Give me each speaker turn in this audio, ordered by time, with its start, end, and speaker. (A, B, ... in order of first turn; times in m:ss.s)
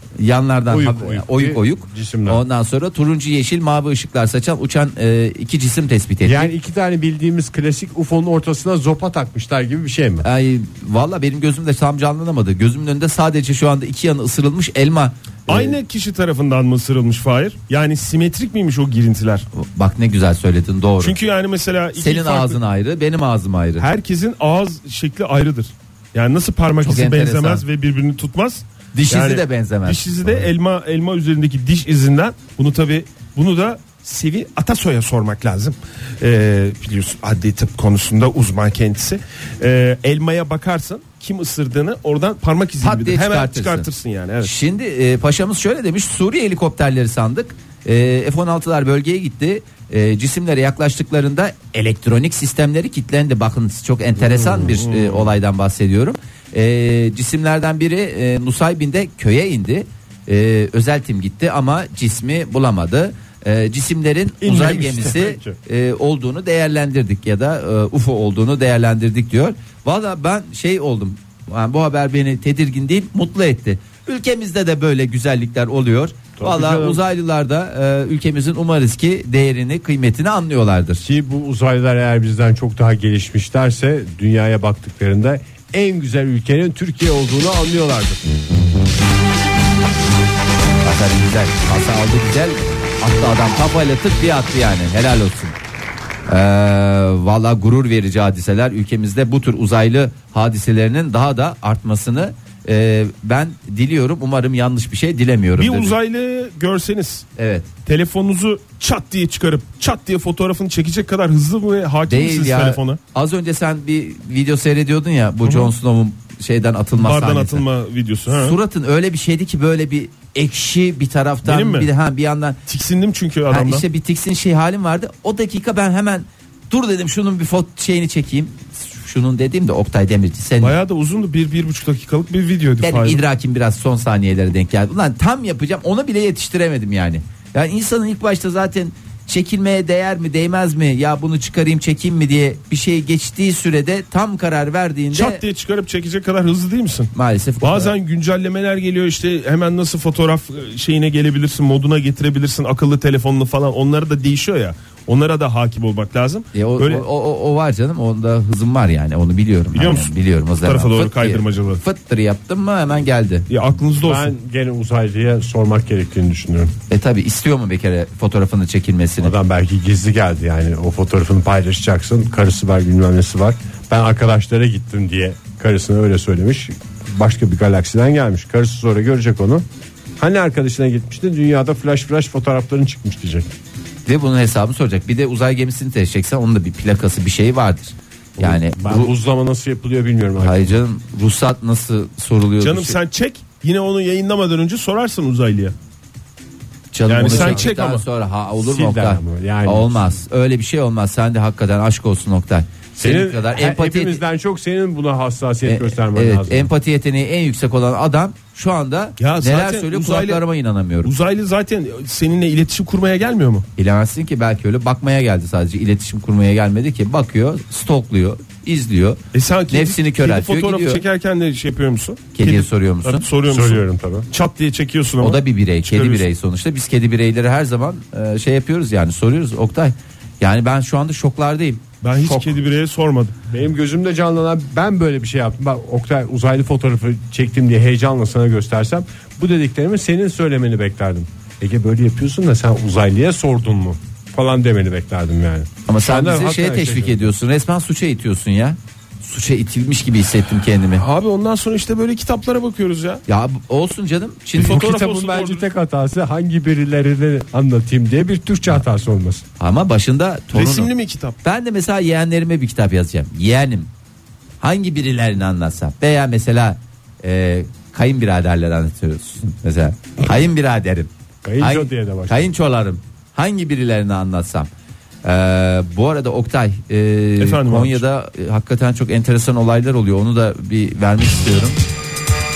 0:00.2-0:06.5 A
0:00.7-0:02.4 B
0:06.2-0:10.3 B
0:10.2-0:15.7 A
0:15.5-0:19.4 C
0:19.5-0:21.2 A
0:21.0-0:22.6 C
0:22.0-0:23.9 A
0:23.8-0:44.5 C
0:26.8-0:27.6 A
0:28.9-0:30.1 A
0:42.8-0:43.9 A
0:44.4-1:21.0 A
0:54.5-0:55.3 C
1:04.4-1:05.3 C
1:04.5-1:05.6 B
1:16.4-1:17.0 B
1:21.0-1:28.3 B
1:30.8-1:35.6 A
1:36.3-1:45.9 A
1:45.6-1:47.3 C
1:47.4-1:47.7 A
1:47.9-1:53.0 C
1:52.1-1:57.6 A
1:55.4-1:55.7 C
1:57.0-1:58.6 C
1:58.3-2:02.6 A
2:01.4-2:01.9 C
2:02.7-2:03.8 C
2:03.5-2:10.7 A
2:10.6-2:13.2 C
2:12.8-2:25.4 A
2:25.1-2:37.1 C
2:27.1-2:27.9 A
2:36.5-2:43.5 A
2:39.7-2:41.8 C
2:43.5-2:44.3 C
2:44.0-2:46.7 B
2:46.9-2:49.3 A
2:49.2-2:59.6 B
3:00.2-3:03.5 B
3:04.1-3:09.1 A
3:08.4-3:10.8 B
3:10.4-3:13.0 A
3:12.6-3:15.8 C
3:16.9-3:24.2 A
3:17.1-3:18.0 C
3:17.2-3:17.7 B
3:18.6-3:20.2 B
3:23.0-3:26.7 B
3:25.6-3:31.1 A
3:29.2-3:30.4 C
3:31.0-3:33.7 C
3:33.8-3:41.0 A
3:39.3-3:46.3 C
3:42.4-3:43.3 A
3:43.5-3:44.3 B
3:45.2-3:52.6 A
3:52.0-3:53.4 C
3:53.5-4:07.3 B
4:05.9-4:11.0 A
4:11.0-4:13.2 C
4:13.3-4:14.9 A
4:14.6-4:15.6 C
4:14.6-4:19.4 B
4:19.6-4:20.9 A
4:20.5-4:21.4 C
4:21.4-4:23.9 A
4:24.6-4:34.7 A
4:31.4-4:32.5 B
4:35.2-4:41.8 A
4:37.4-4:38.0 C